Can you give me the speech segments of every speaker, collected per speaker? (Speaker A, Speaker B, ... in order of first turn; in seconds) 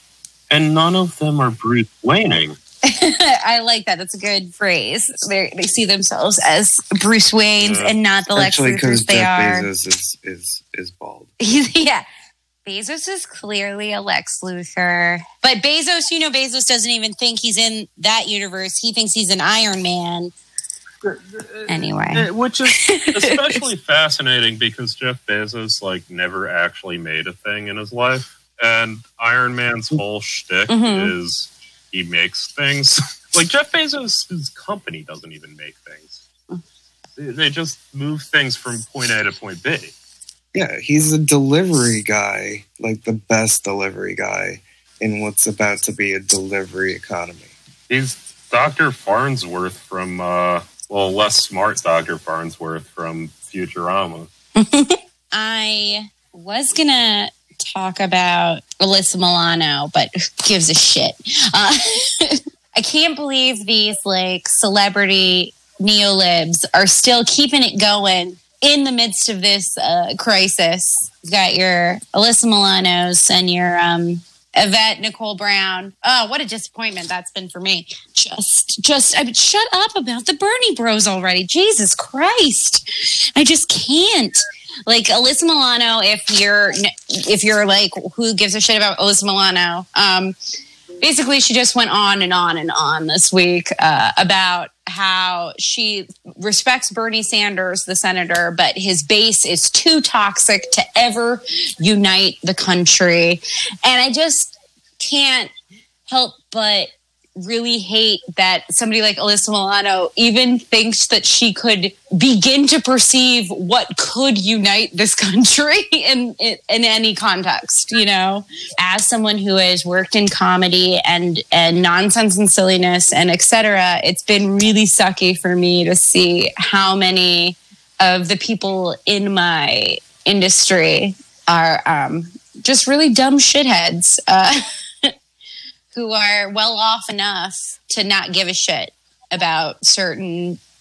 Speaker A: 0.5-2.6, 7.6-8.0, 21.0-36.2, 37.1-39.9, 47.9-54.3
Speaker B: 2.8-9.7, 11.4-12.0, 12.7-20.3, 21.7-23.6, 30.7-31.1, 54.6-90.3, 91.0-105.5, 106.1-135.1, 135.9-140.6
Speaker C: 8.3-11.3, 40.5-47.5